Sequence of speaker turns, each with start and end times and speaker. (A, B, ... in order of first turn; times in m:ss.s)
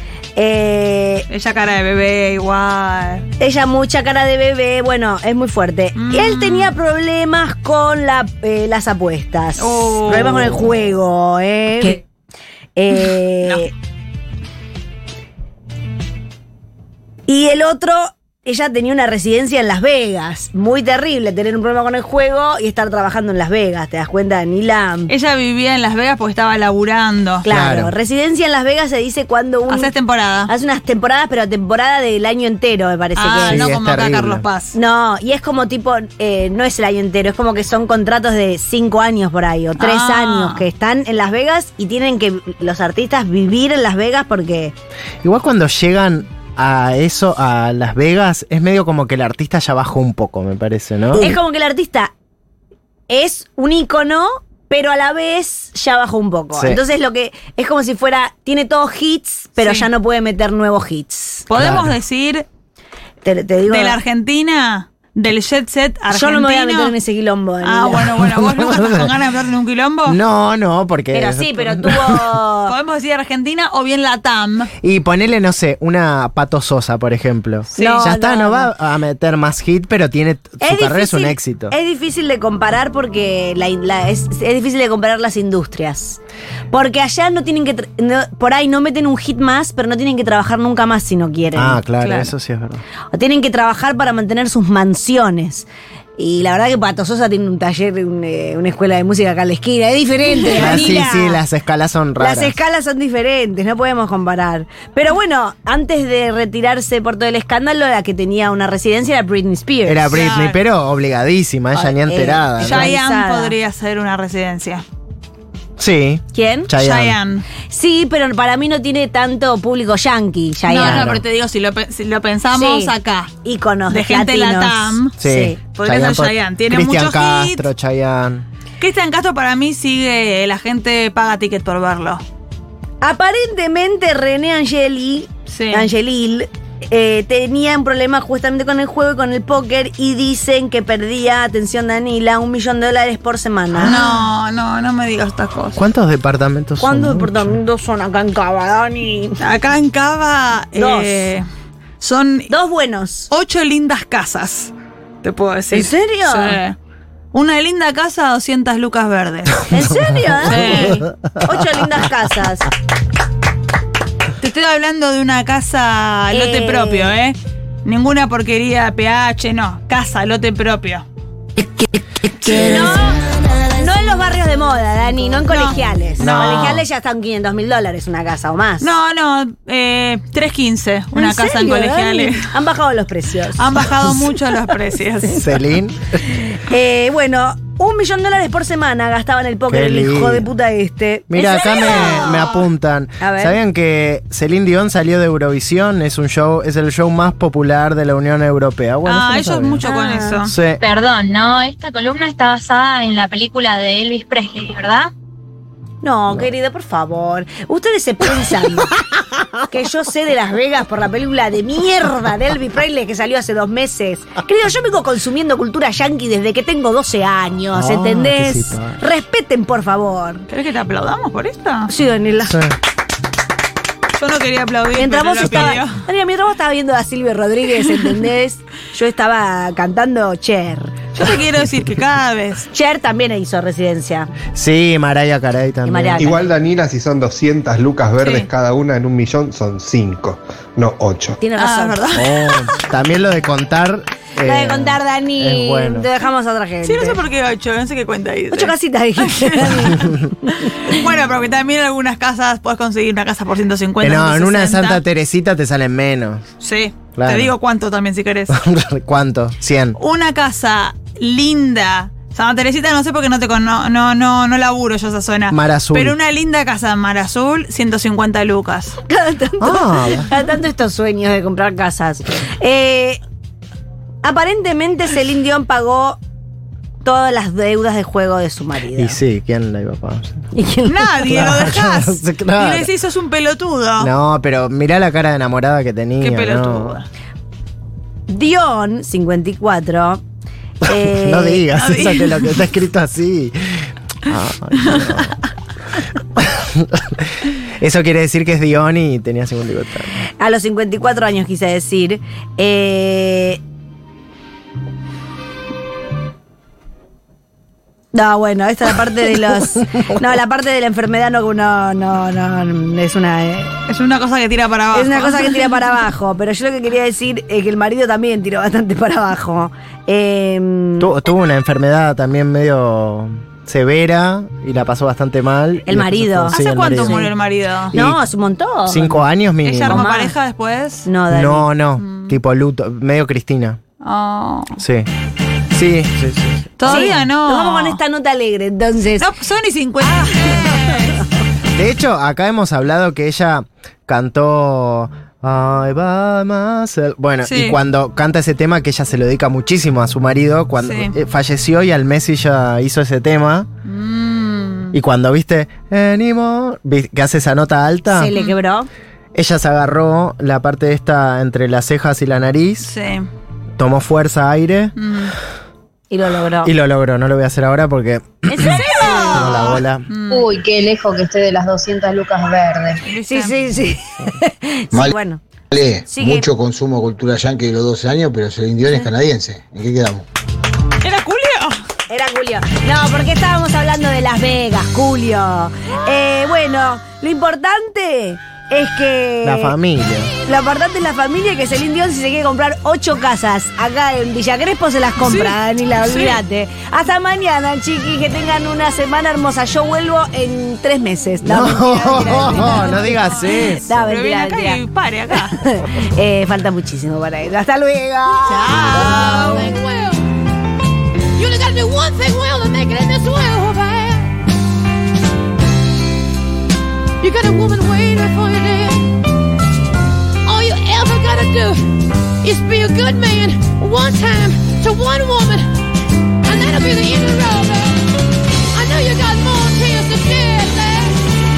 0:00.4-0:01.3 A
0:01.3-0:03.2 B
0:03.4-0:12.0 A
0:06.0-0:06.8 B
0:09.6-0:10.6 B
0:12.8-0:13.7 A
0:13.4-0:13.7 B
0:17.3-0:25.1 A
0:25.1-0:27.4 B
0:27.4-0:29.9 A
0:27.5-0:27.9 C
0:29.7-0:30.5 B
0:30.5-0:33.7 A
0:33.2-0:34.8 B
0:33.4-0:34.4 C
0:34.7-0:44.7 A
0:39.8-0:40.7 B
0:45.2-0:51.4 C
0:51.1-0:52.1 A
0:53.1-1:01.5 A
0:56.6-0:56.8 C
0:59.6-0:59.9 B
1:01.5-1:02.5 B
1:01.6-1:01.9 C
1:03.2-1:04.0 A
1:03.7-1:07.0 B
1:06.1-1:08.1 A
1:07.6-1:10.2 B
1:08.2-1:09.1 C
1:10.1-1:12.3 C
1:11.1-1:12.8 A
1:12.7-1:14.7 B
1:14.8-1:21.8 C
1:17.8-1:18.0 B
1:17.8-1:18.7 A
1:20.6-1:26.2 A
1:26.7-1:31.8 A
1:31.6-1:32.8 C
1:32.0-1:32.3 B
1:33.1-1:41.4 A
1:40.5-1:42.6 C
1:40.5-1:41.0 B
1:42.2-1:50.3 A
1:49.9-1:52.9 C
1:50.1-1:50.6 B
1:51.7-1:53.6 A
1:52.6-1:54.8 B
1:55.8-1:57.2 C
1:56.3-1:56.7 A
1:56.8-1:57.5 B
1:57.7-2:01.1 A
2:00.7-2:03.3 B
2:00.8-2:01.2 C
2:02.5-2:05.6 A
2:03.9-2:05.1 B
2:05.2-2:08.5 C
2:05.8-2:07.6 B
2:08.8-2:12.2 B
2:13.0-2:24.1 A
2:15.5-2:15.9 B
2:23.8-2:25.8 B
2:25.8-2:27.6 C
2:26.8-2:29.4 A
2:29.4-2:31.4 B
2:30.8-2:31.3 A
2:32.0-2:32.5 B
2:32.5-2:33.3 A
2:33.3-2:34.7 B
2:35.2-2:36.8 B
2:35.7-2:36.6 A
2:37.3-2:39.7 B
2:39.7-2:42.7 A
2:40.4-2:41.0 B
2:44.4-2:51.0 B
2:46.3-2:47.2 A
2:52.4-2:58.9 A
2:55.5-2:56.8 B
2:56.2-2:56.8 C
2:58.8-3:02.5 B
3:01.2-3:03.9 A
3:03.6-3:05.6 B
3:05.3-3:06.2 C
3:06.3-3:12.6 A
3:09.7-3:10.5 C
3:11.3-3:19.8 C
3:11.4-3:12.6 B
3:13.2-3:13.6 A
3:19.0-3:20.6 B
3:19.8-3:20.4 A
3:20.4-3:20.8 C
3:20.8-3:25.1 D
3:26.0-3:28.9 A
3:29.7-3:40.5 A
3:37.7-3:39.0 C
3:40.5-3:41.9 B
3:41.9-3:42.6 A
3:42.4-3:42.8 C
3:44.2-3:46.0 B
3:45.0-3:51.1 A
3:51.2-3:52.7 B
3:52.7-3:54.3 A
3:54.5-3:56.4 C
3:55.8-3:56.5 A
3:56.2-4:01.4 E
3:58.2-3:58.5 B
4:01.4-4:02.2 A
4:01.6-4:02.8 B
4:02.1-4:06.1 C
4:04.4-4:07.2 A
4:06.8-4:15.0 B
4:08.5-4:10.8 A
4:14.0-4:16.4 C
4:16.6-4:18.6 B
4:17.2-4:17.5 C
4:18.5-4:20.0 C
4:20.0-4:29.0 B
4:25.5-4:26.2 C
4:29.0-4:33.2 A
4:29.6-4:30.3 C
4:34.2-4:36.2 A
4:37.0-4:39.2 A
4:39.0-4:40.5 C
4:40.6-4:41.5 A
4:40.9-4:44.1 B
4:41.3-4:42.9 C
4:44.0-4:47.0 C
4:46.2-4:47.1 B
4:48.3-4:50.2 A
4:50.8-4:51.7 A
4:50.9-4:55.4 C
4:51.7-4:52.6 B
4:56.4-5:00.3 C
5:00.4-5:03.6 A
5:08.1-5:13.8 A
5:13.9-5:15.8 B
5:14.9-5:21.1 A
5:21.0-5:27.3 C
5:25.8-5:27.3 A
5:26.5-5:27.9 B
5:27.9-5:28.2 C
5:27.9-5:29.3 A
5:28.9-5:30.1 C
5:29.6-5:31.1 B
5:29.9-5:30.3 A
5:31.1-5:31.7 A
5:31.3-5:33.8 C
5:32.0-5:32.4 B
5:34.0-5:34.8 B
5:34.8-5:35.1 C
5:35.7-5:37.2 C
5:36.8-5:38.0 B
5:36.9-5:39.3 A
5:39.2-5:41.3 B
5:41.7-5:53.7 C
5:47.4-5:47.8 B
5:50.8-5:51.2 B
5:53.8-5:55.0 B
5:54.9-5:58.3 C
5:58.1-5:58.9 A
5:59.3-6:02.9 C
6:02.8-6:03.3 B
6:03.8-6:05.0 C
6:05.0-6:05.4 B
6:06.1-6:06.7 A
6:06.6-6:10.1 C
6:08.5-6:09.8 A
6:08.7-6:10.5 B
6:10.3-6:13.0 F
6:13.0-6:13.6 B
6:13.3-6:15.4 A
6:15.7-6:20.3 G
6:16.1-6:16.5 A
6:21.0-6:21.8 B
6:22.1-6:29.8 A
6:29.4-6:30.3 C
6:30.4-6:44.8 A
6:35.2-6:36.4 B
6:41.4-6:43.9 C
6:42.1-6:45.6 B
6:45.5-6:49.7 A
6:48.4-6:49.9 B
6:49.8-6:50.2 H
6:51.4-6:54.3 H
6:57.2-6:59.2 H
7:00.5-7:05.7 H
7:06.4-7:08.0 H
7:08.7-7:11.2 H